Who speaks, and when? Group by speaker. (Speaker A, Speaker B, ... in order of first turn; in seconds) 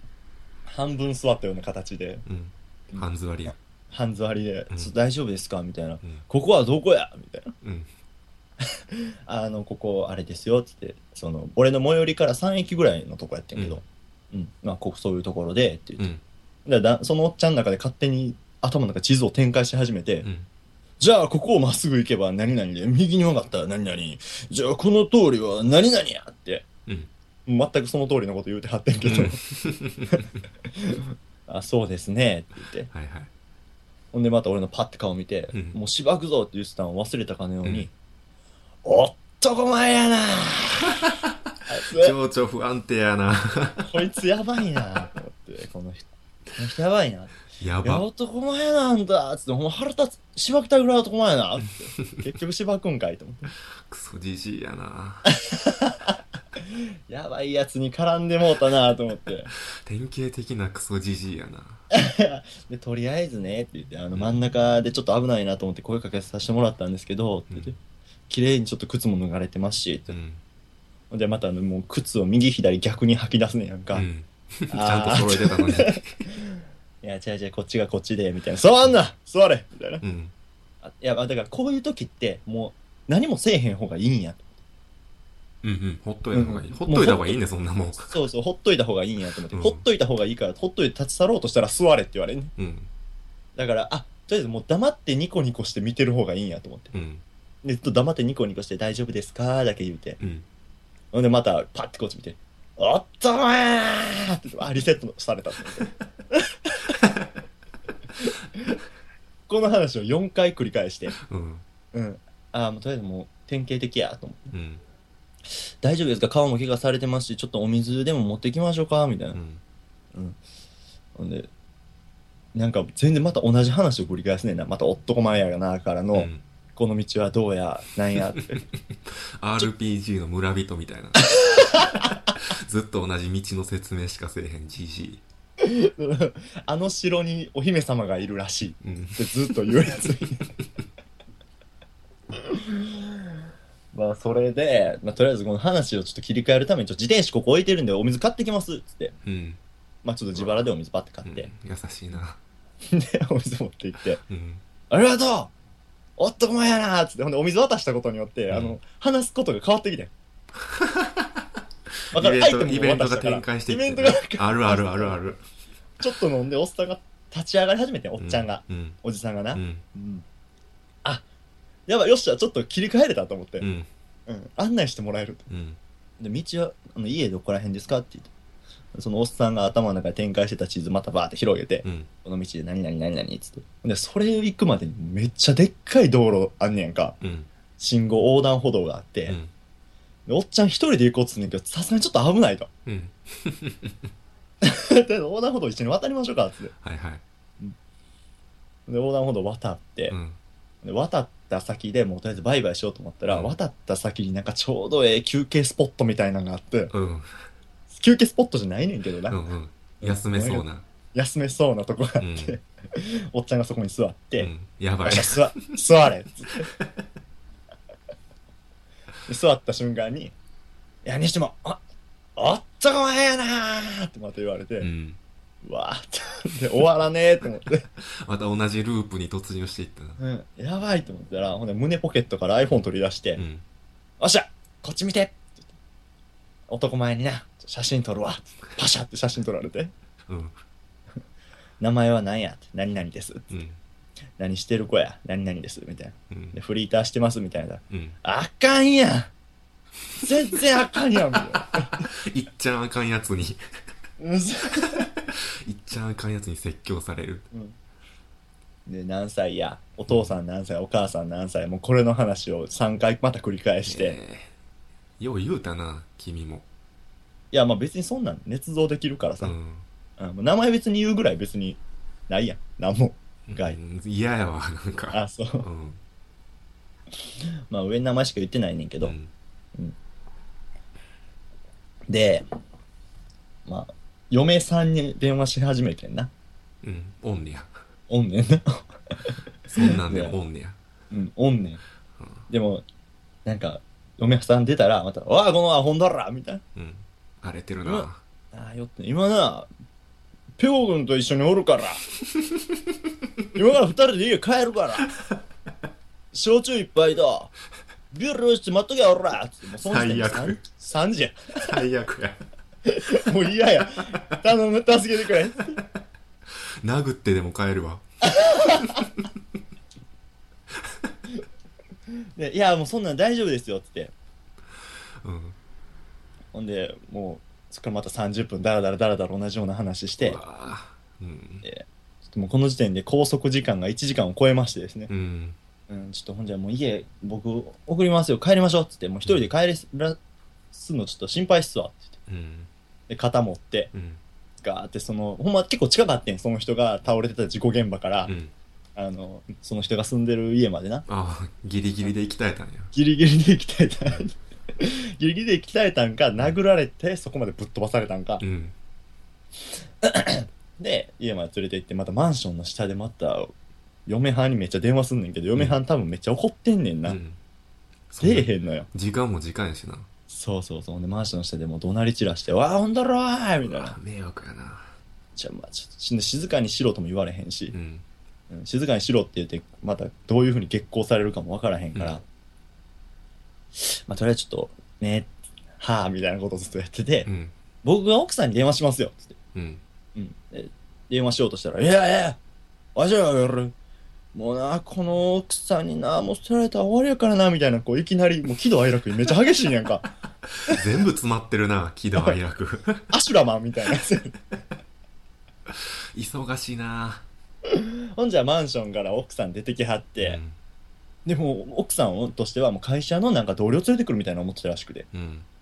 Speaker A: 0.7-2.2, 3.9-7.5, 8.9-16.1, 16.6-20.3, 21.0-26.7, 27.4-29.4, 30.8-32.9, 34.1-37.9, 38.8-41.0, 41.7-42.1, 43.8-53.5, 55.4-59.5, 61.9-67.8, 68.3-70.1, 71.1-74.1, 74.7-80.0, 80.8-84.5, 86.3-87.4, 88.0-92.5, 93.5-96.9, 97.6-100.2, 101.1-106.9, 109.5-111.2, 111.9-114.5, 115.8-119.4, 120.1-120.4, 121.2-121.5, 122.5-128.6, 135.6-140.4, 142.4-143.3, 143.9-149.1, 150.0-151.5, 152.8-154.2, 154.9-155.5, 156.2-160.1, 162.1-165.2, 166.0-170.2, 171.9-173.7, 174.3-175.5, 176.2-178.3, 178.9-187.2, 187.8-189.4, 190.3-192.7, 194.6-196.7, 198.9-200.1, 200.8-206.9, 207.9-209.4, 210.0-214.5, 215.0-216.7, 219.3-220.3, 221.0-221.8, 222.4-224.9, 225.6-227.8, 230.2-233.4, 234.2-235.6, 236.7-239.9, 241.8-243.5, 244.4-249.3, 250.2-252.1, 254.2-255.1, 257.5-257.8, 258.9-264.2, 267.5-269.6, 270.2-273.8, 275.1-275.7, 277.7-279.1, 282.1-282.5, 283.6-286.3, 288.1-290.4, 291.1-291.8, 292.5-292.8, 293.4-296.6, 297.8-299.7, 300.6-302.0, 303.5-305.1, 306.3-307.5, 308.1-311.6, 312.9-315.8, 318.2-319.0, 322.4-324.1, 326.5-330.4, 331.6-335.1, 335.9-340.2, 340.7-342.1, 343.1-343.9, 344.6-348.3, 348.9-351.1, 352.9-358.4, 360.0-363.5, 364.1-367.2, 368.2-368.9, 370.3-373.9, 375.4-377.7, 378.5-382.2, 383.8-387.3, 387.8-389.3, 390.1-392.4, 392.9-393.7, 394.3-400.1, 403.1-404.4, 407.7-410.4, 411.2-415.1
Speaker B: 2.2-3.5, 7.6-7.9, 13.6-13.8, 20.2-20.5, 29.0-30.2, 32.9-33.3, 35.5-35.8, 37.6-37.9, 41.9-43.9, 47.6-48.0, 53.9-55.3, 59.7-61.8, 70.1-70.4, 73.9-76.2, 80.0-80.3, 85.6-88.2, 89.5-89.8, 92.6-92.9, 96.9-97.2, 100.2-100.5, 111.2-111.6, 114.5-114.8, 119.3-119.6, 126.1-126.4, 129.1-135.2, 138.8-140.3, 149.2-149.6, 150.3-150.6, 151.2-152.4, 154.2-154.6, 158.5-158.8, 160.6-161.4, 162.1-165.4, 168.2-169.0, 169.5-169.8, 173.6-173.9, 175.5-175.8, 181.8-182.1, 187.2-187.5, 189.3-189.5, 192.8-194.1, 196.8-197.2, 200.1-200.4, 203.3-203.5, 206.9-207.3, 209.3-210.8, 212.2-212.6, 214.4-215.5, 224.8-225.2, 227.9-230.2, 233.4-233.6, 240.3-240.5, 243.5-243.8, 246.3-246.6, 247.9-248.2, 251.7-253.6, 254.8-257.5, 263.9-264.5, 265.2-266.6, 269.4-269.9, 273.5-276.0, 279.0-279.3, 286.8-287.7, 289.7-290.8, 292.2-292.4, 296.7-298.2, 302.3-302.9, 309.8-310.6, 311.6-312.4, 316.8-318.0, 318.6-319.2, 320.8-321.1, 325.2-325.6, 330.2-331.6, 335.1-335.6, 342.3-342.7, 343.9-344.2, 348.2-348.5, 351.1-352.9, 358.4-358.7, 365.5-365.8, 367.0-367.4, 368.1-370.1, 373.6-374.9, 377.7-378.0, 387.2-387.5, 389.5-389.8, 400.6-403.1, 405.7-407.2, 410.2-410.6, 415.1-415.4